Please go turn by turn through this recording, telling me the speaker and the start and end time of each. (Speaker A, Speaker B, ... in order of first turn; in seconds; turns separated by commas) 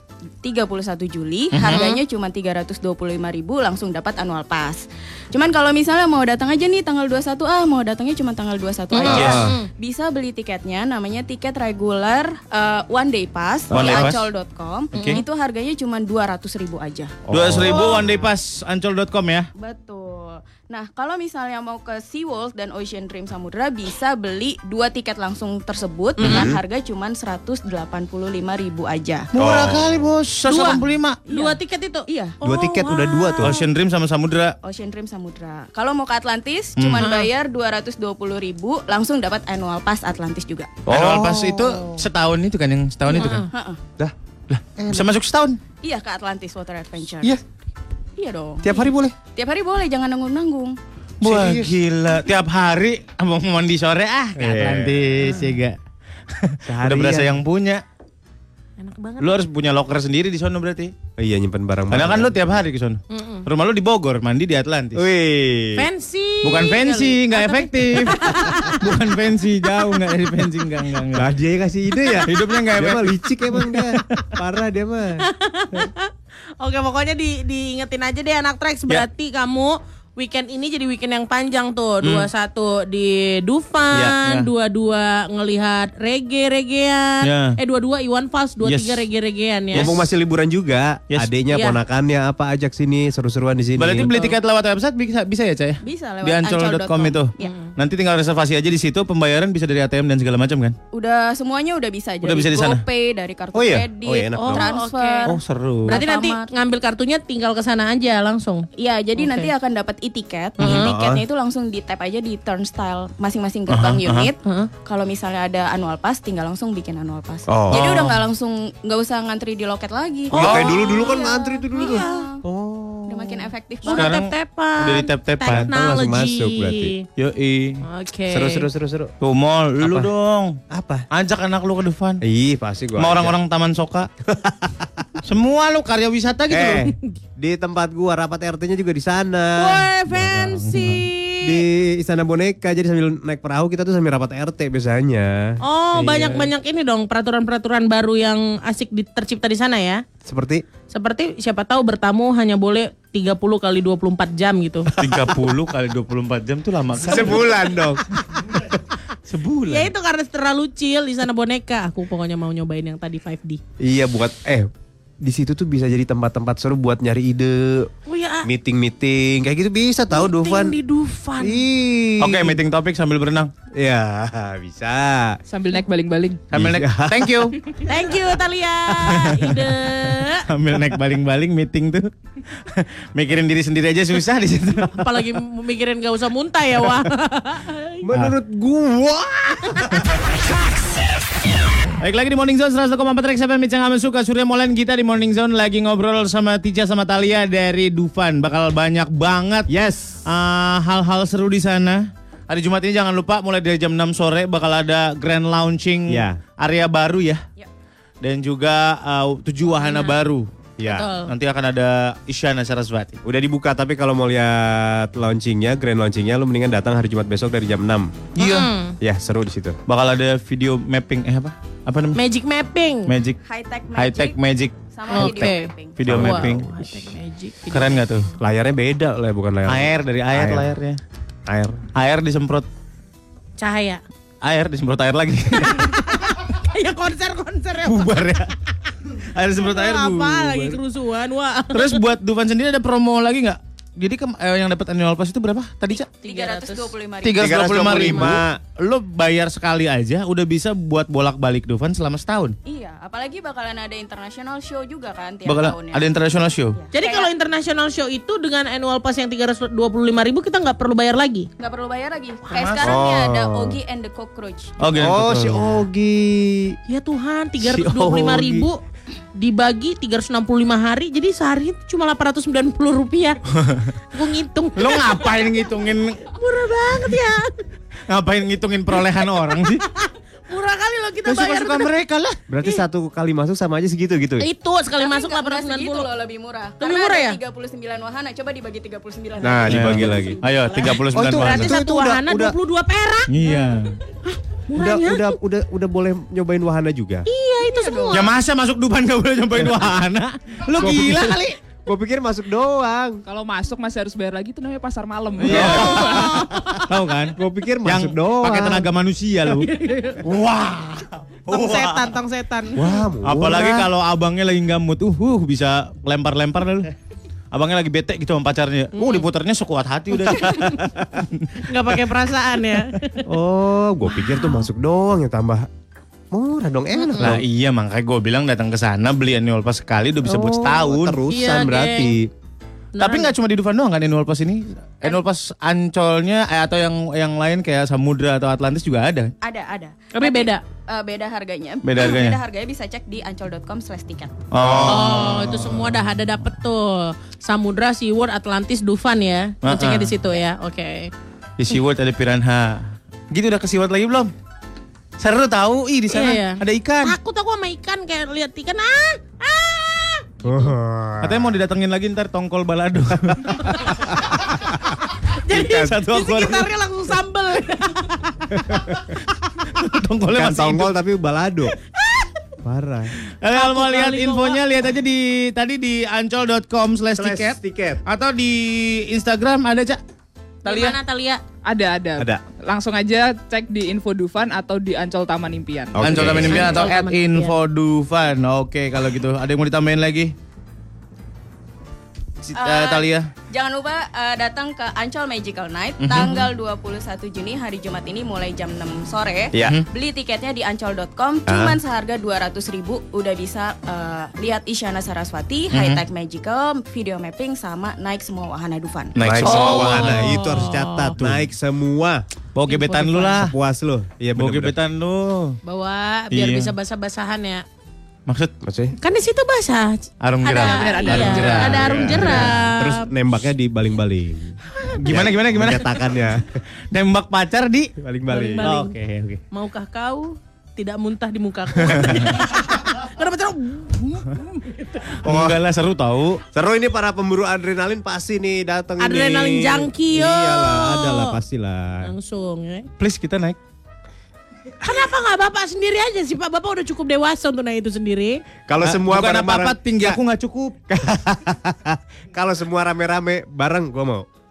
Speaker A: 0.4-18.2, Speaker B: 1.5-1.9, Speaker C: 1.7-2.0, Speaker C: 8.9-9.7, Speaker B: 9.0-9.4, Speaker D: 9.1-9.6, Speaker B: 13.7-14.3, Speaker D: 13.7-14.0, Speaker B: 14.9-15.2, Speaker C: 14.9-15.2, Speaker D: 17.2-17.8, Speaker B: 17.3-19.5, Speaker A: 19.6-29.3, Speaker C: 26.2-26.5, Speaker D: 26.2-26.6, Speaker B: 29.3-31.2, Speaker D: 29.3-30.1, Speaker C: 30.5-33.6, Speaker A: 31.3-32.3, Speaker D: 32.4-33.5, Speaker B: 33.4-34.5, Speaker A: 34.6-40.8, Speaker B: 36.8-37.1, Speaker C: 37.0-37.3, Speaker D: 40.9-42.0, Speaker B: 40.9-43.5, Speaker C: 43.1-43.5, Speaker A: 43.5-43.8, Speaker B: 44.5-45.6, Speaker D: 44.8-45.1, Speaker A: 45.8-47.3, Speaker A: 48.2-48.8, Speaker D: 48.6-49.1, Speaker A: 49.3-50.8, Speaker B: 51.2-55.8, Speaker D: 51.2-51.7, Speaker D: 54.4-55.0, Speaker B: 56.3-57.8, Speaker D: 56.6-57.4, Speaker C: 58.8-59.3, Speaker B: 59.2-60.9, Speaker D: 61.2-62.4, Speaker B: 61.9-65.1, Speaker C: 63.1-63.5, Speaker D: 65.0-65.8, Speaker C: 65.8-68.8, Speaker B: 66.4-71.3, Speaker D: 71.2-75.9, Speaker B: 72.2-74.4, Speaker C: 75.2-89.9, Speaker B: 82.0-82.3, Speaker B: 84.0-84.5, Speaker B: 87.2-87.5, Speaker B: 88.6-89.0, Speaker B: 89.7-90.0, Speaker D: 89.7-94.2, Speaker C: 91.5-91.8, Speaker B: 93.8-100.8, Speaker A: 95.8-97.5, Speaker C: 97.4-97.7, Speaker A: 100.9-106.5, Speaker B: 102.2-102.8, Speaker D: 103.5-104.7, Speaker C: 104.4-105.3, Speaker B: 105.2-106.0, Speaker C: 105.9-109.5, Speaker A: 108.8-122.4, Speaker C: 110.6-110.9, Speaker D: 110.8-111.2, Speaker B: 113.7-114.3, Speaker C: 114.4-114.7, Speaker D: 117.5-118.0, Speaker B: 117.7-118.2, Speaker C: 120.3-122.3, Speaker B: 120.3-120.7, Speaker D: 120.4-123.4, Speaker A: 123.1-124.1, Speaker C: 123.8-127.0, Speaker B: 123.9-125.7, Speaker D: 125.5-126.9, Speaker B: 127.2-127.8, Speaker C: 127.8-128.7, Speaker D: 128.3-129.1, Speaker B: 129.2-130.6, Speaker D: 129.8-130.1, Speaker D: 130.7-131.1, Speaker B: 131.1-132.2, Speaker D: 132.2-133.3, Speaker B: 133.0-134.1, Speaker D: 134.3-135.1, Speaker B: 135.2-136.9, Speaker D: 136.5-139.9, Speaker C: 139.6-141.6, Speaker B: 140.1-141.1, Speaker D: 141.4-146.5, Speaker C: 145.6-150.0, Speaker D: 150.2-150.6, Speaker C: 150.9-154.9, Speaker D: 155.0-155.2, Speaker B: 155.0-157.5, Speaker D: 157.0-158.0, Speaker B: 158.3-158.6, Speaker B: 159.2-159.9, Speaker C: 159.7-163.6, Speaker D: 163.8-164.7, Speaker D: 165.2-167.9, Speaker C: 168.1-168.4, Speaker D: 168.4-170.8, Speaker C: 170.1-171.6, Speaker D: 171.4-172.6, Speaker B: 172.2-173.5, Speaker D: 173.7-175.4, Speaker E: 175.5-176.4, Speaker B: 176.5-177.6, Speaker D: 176.5-177.5, Speaker C: 177.8-180.4, Speaker B: 179.1-179.7, Speaker B: 180.5-185.1, Speaker C: 184.9-188.0, Speaker D: 188.0-190.0, Speaker B: 192.0-199.7, Speaker D: 199.7-200.2, Speaker B: 200.2-207.4, Speaker D: 206.1-206.4, Speaker B: 208.2-210.5, Speaker C: 209.8-210.1, Speaker D: 210.8-211.1, Speaker C: 210.8-211.3, Speaker B: 211.3-213.2, Speaker D: 213.2-218.2, Speaker B: 218.3-218.7, Speaker C: 218.4-218.9, Speaker D: 219.0-219.8, Speaker B: 219.9-222.2, Speaker C: 222.1-223.1, Speaker B: 223.1-223.4, Speaker A: 223.4-224.4, Speaker B: 223.9-226.7, Speaker A: 224.9-226.0, Speaker C: 225.1-228.1, Speaker D: 226.0-226.6, Speaker B: 227.7-228.2, Speaker D: 228.4-230.7, Speaker B: 229.7-231.0, Speaker D: 231.5-231.8, Speaker B: 231.9-232.7, Speaker C: 233.6-234.0, Speaker B: 234.4-236.2, Speaker C: 235.5-238.2, Speaker B: 237.8-238.5, Speaker B: 239.3-240.7, Speaker C: 239.6-242.0, Speaker B: 241.7-246.1, Speaker A: 246.2-247.8, Speaker C: 246.2-246.9, Speaker B: 247.2-252.5, Speaker D: 247.4-248.5, Speaker A: 252.7-256.1, Speaker B: 255.4-256.8, Speaker A: 256.8-257.3, Speaker C: 256.9-261.5, Speaker A: 261.6-264.7, Speaker B: 262.5-263.3, Speaker D: 262.8-263.7, Speaker B: 264.8-265.7, Speaker D: 265.0-266.8, Speaker C: 266.9-268.8, Speaker D: 267.7-268.6, Speaker C: 269.4-273.4, Speaker B: 273.5-273.9, Speaker C: 274.1-275.5, Speaker B: 274.8-276.2, Speaker C: 276.3-277.6, Speaker B: 278.1-279.8, Speaker C: 279.0-281.9, Speaker B: 281.2-282.4, Speaker D: 282.5-284.4, Speaker C: 284.4-286.1, Speaker A: 284.9-290.3, Speaker C: 286.8-287.4, Speaker D: 289.4-292.5, Speaker B: 289.7-291.8, Speaker C: 290.5-293.6, Speaker B: 293.3-294.0, Speaker C: 294.3-295.4, Speaker D: 294.7-297.2, Speaker C: 297.3-298.3, Speaker A: 297.7-298.2, Speaker B: 298.1-301.6, Speaker D: 300.8-303.2, Speaker E: 303.2-306.3, Speaker B: 305.4-309.7, Speaker D: 305.5-306.6, Speaker C: 306.1-306.7, Speaker D: 307.3-308.9, Speaker C: 309.6-310.2, Speaker B: 310.2-312.0, Speaker C: 311.5-312.8, Speaker D: 312.7-313.9, Speaker B: 313.2-316.9, Speaker B: 317.5-321.6, Speaker C: 318.9-319.2, Speaker C: 320.3-320.7, Speaker C: 321.6-323.2, Speaker D: 323.2-325.7, Speaker D: 326.3-327.4, Speaker C: 326.9-327.3, Speaker B: 327.2-331.2, Speaker D: 330.2-332.3, Speaker C: 331.3-332.1, Speaker C: 332.9-333.3, Speaker B: 333.0-339.3, Speaker A: 339.4-344.3, Speaker C: 340.1-340.6, Speaker B: 341.8-342.4, Speaker B: 344.5-346.0, Speaker D: 344.6-345.3, Speaker C: 344.8-351.1, Speaker B: 349.6-350.1, Speaker B: 351.6-354.3, Speaker B: 355.2-357.1, Speaker C: 356.1-360.7, Speaker D: 360.4-361.6, Speaker B: 361.2-363.8, Speaker C: 363.7-363.9, Speaker C: 365.4-368.6, Speaker D: 365.5-365.9, Speaker B: 365.5-366.7, Speaker B: 369.7-370.9, Speaker D: 370.3-371.7, Speaker D: 372.6-373.1, Speaker B: 373.4-380.0, Speaker C: 373.5-374.6, Speaker D: 377.1-378.0, Speaker C: 380.6-381.4, Speaker E: 380.6-380.9, Speaker E: 381.6-386.0, Speaker D: 385.9-386.9, Speaker B: 386.0-390.3, Speaker C: 386.4-387.5, Speaker B: 392.4-393.2, Speaker A: 392.5-409.1, Speaker B: 396.0-396.5, Speaker D: 401.5-401.8, Speaker B: 405.7-406.0, Speaker B: 409.1-410.6, Speaker D: 409.2-412.2, Speaker C: 409.5-411.2, Speaker B: 412.6-413.5, Speaker C: 412.7-413.4, Speaker D: 413.2-414.7, Speaker B: 414.4-415.6, Speaker C: 415.6-417.6, Speaker B: 416.3-416.7, Speaker D: 418.6-418.9, Speaker C: 419.0-423.1, Speaker B: 420.2-422.5, Speaker E: 420.6-421.8, Speaker D: 421.7-426.5, Speaker B: 425.0-426.0, Speaker B: 426.9-427.9, Speaker D: 428.0-429.4, Speaker C: 428.3-428.9, Speaker B: 428.6-428.9, Speaker C: 429.5-435.1, Speaker B: 435.2-436.4, Speaker D: 435.2-435.6, Speaker D: 436.5-442.1, Speaker C: 439.0-441.4, Speaker C: 442.0-442.9, Speaker B: 443.0-443.6, Speaker C: 444.8-448.4, Speaker D: 448.7-450.2, Speaker B: 448.8-450.8, Speaker D: 450.9-454.2